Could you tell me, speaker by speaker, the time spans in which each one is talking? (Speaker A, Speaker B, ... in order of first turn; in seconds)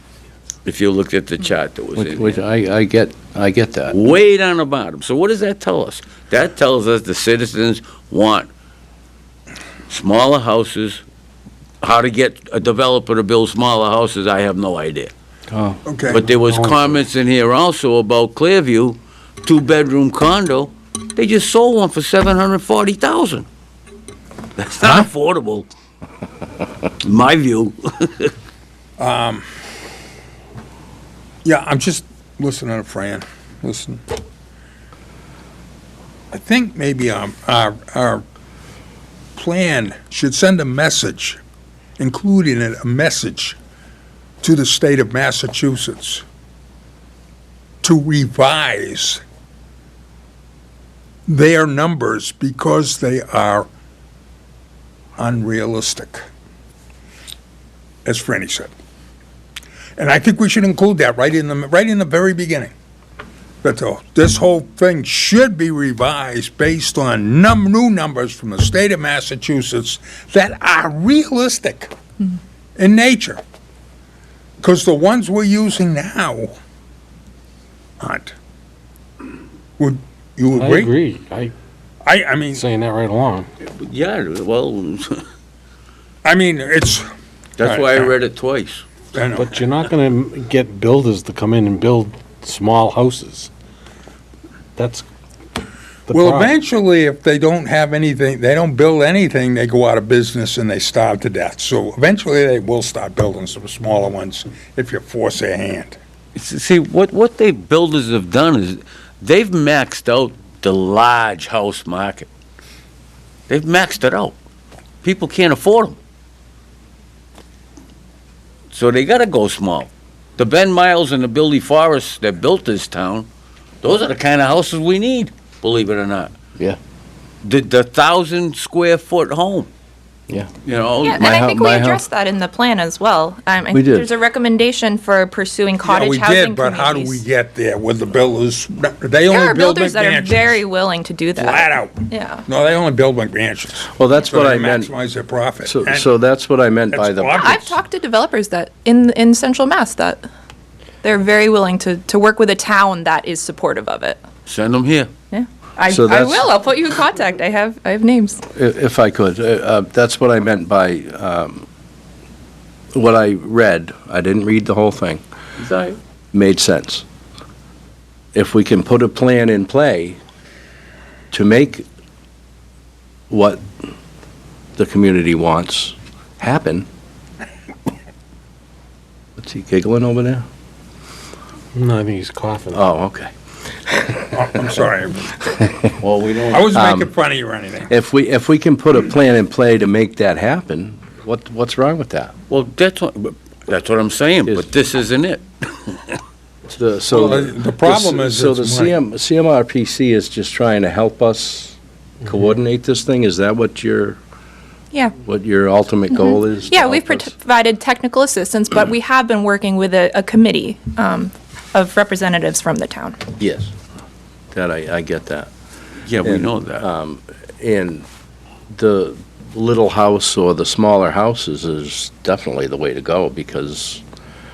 Speaker A: 0.6-2.4, 3.9-8.5, 9.9-11.0, 11.8-15.1, 16.1-23.4, 24.6-25.7, 27.0-28.3, 83.6-85.2, 87.6-88.8, 106.3-112.3, 113.5-114.3, 115.0-116.0, 118.7-123.3, 123.8-126.3, 127.4-129.7, 130.6-131.3, 154.4-155.1, 165.6-166.0, 186.0-186.7, 192.5-196.2, 216.0-216.8
Speaker B: 1.9-4.0, 15.5-15.8, 131.2-132.0, 133.7-134.1, 143.9-144.9, 145.6-147.8, 155.9-156.5, 158.5-161.6, 162.9-165.2, 166.3-167.0, 168.3-170.2, 171.3-171.8, 173.3-173.6, 174.8-176.8, 179.4-180.4, 182.7-183.3, 183.9-184.5, 186.7-187.1, 187.9-192.3, 196.7-204.2, 205.2-207.3, 213.4-213.7, 214.5-215.5, 216.2-218.0, 218.7-224.0
Speaker C: 15.8-16.2, 29.0-29.4, 31.4-34.0, 36.3-38.2, 39.4-41.4, 42.0-43.6, 44.4-46.2, 47.8-49.2, 51.3-53.7, 55.2-56.3, 58.0-58.7, 60.0-62.7, 63.6-71.9, 72.8-73.4, 74.6-76.5, 78.0-78.3, 79.8-80.9, 82.0-82.6, 86.2-87.1, 87.6-88.1, 89.1-89.5, 96.1-106.0, 135.8-140.6, 141.3-146.1, 146.9-147.7, 184.3-185.5, 186.5-187.9, 197.1-198.9
Speaker D: 16.4-16.9, 80.5-81.5, 82.5-83.5, 89.3-93.5, 94.8-95.0, 96.1-96.5, 181.7-182.8
Speaker E: 131.0-137.2, 139.3-142.4, 147.4-150.2, 151.0-154.2, 155.3-158.4, 206.1-213.2